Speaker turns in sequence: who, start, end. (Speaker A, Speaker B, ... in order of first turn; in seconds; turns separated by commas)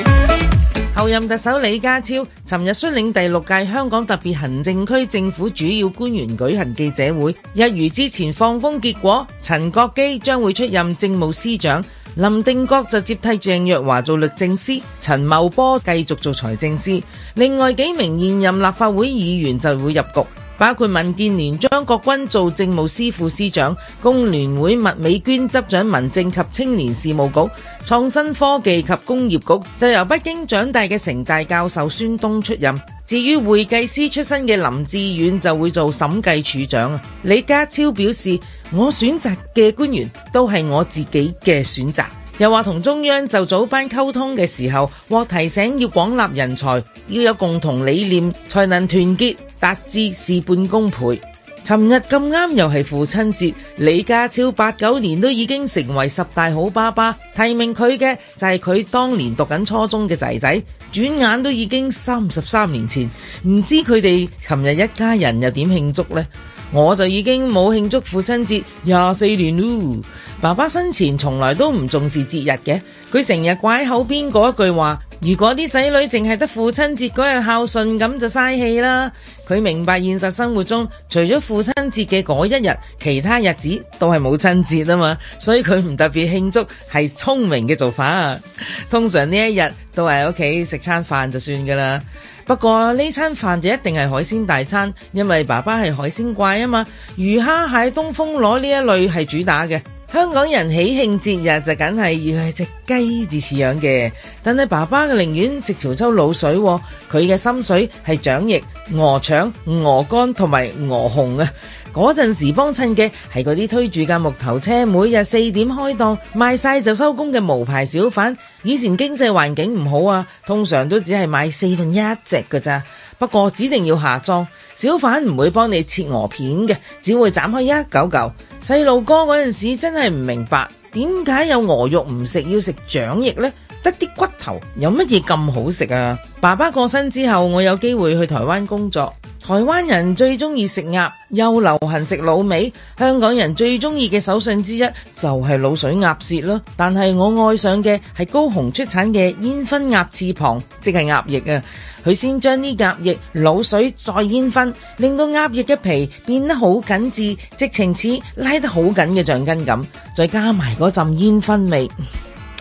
Speaker A: 0.9-161.9